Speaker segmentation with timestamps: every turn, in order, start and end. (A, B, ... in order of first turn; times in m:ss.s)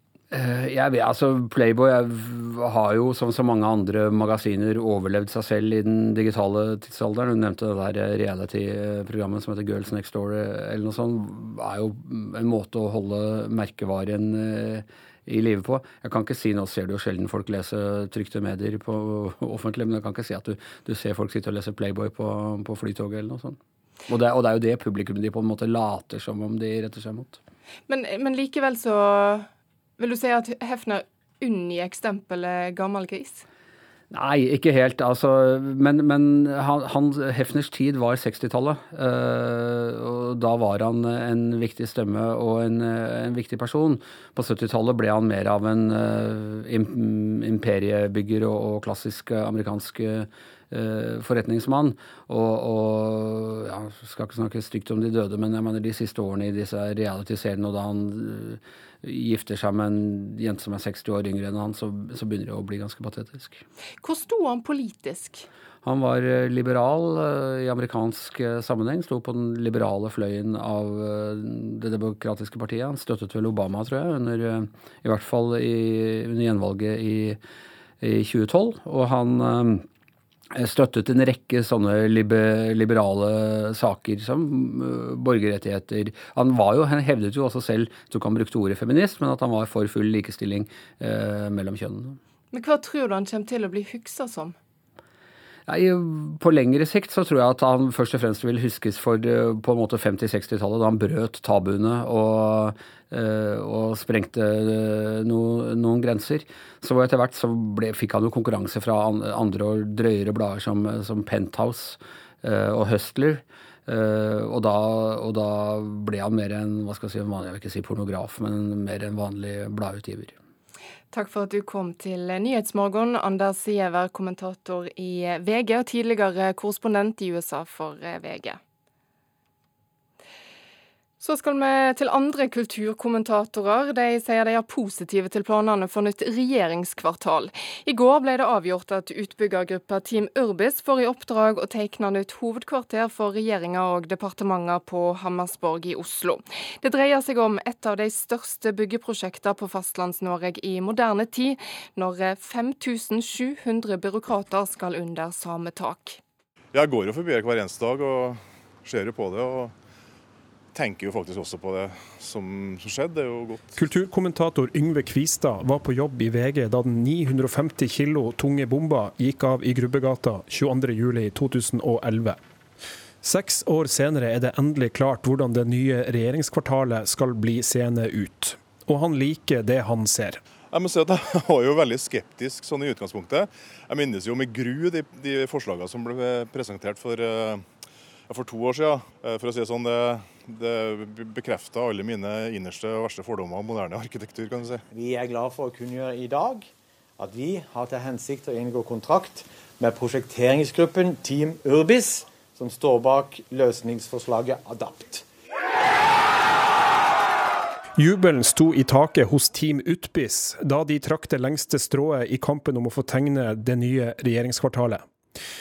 0:00.3-0:27.4 A
0:27.9-0:29.5 B
0:30.0-0:33.4 B
0:34.1-1:03.6 A
1:04.0-1:05.4 B
1:05.8-1:17.4 A
1:18.0-1:19.8 A
1:20.5-1:32.2 A
1:32.5-1:34.6 B
1:35.7-2:00.3 A
2:01.1-2:08.6 B
2:11.2-2:36.2 B
2:36.7-2:39.7 C
2:40.7-2:43.8 C
2:43.7-2:52.4 D
2:53.2-3:00.4 D
3:00.7-3:07.6 C
3:08.3-3:14.8 C
3:14.9-3:16.6 E
3:17.2-3:25.2 E
3:28.0-3:35.0 D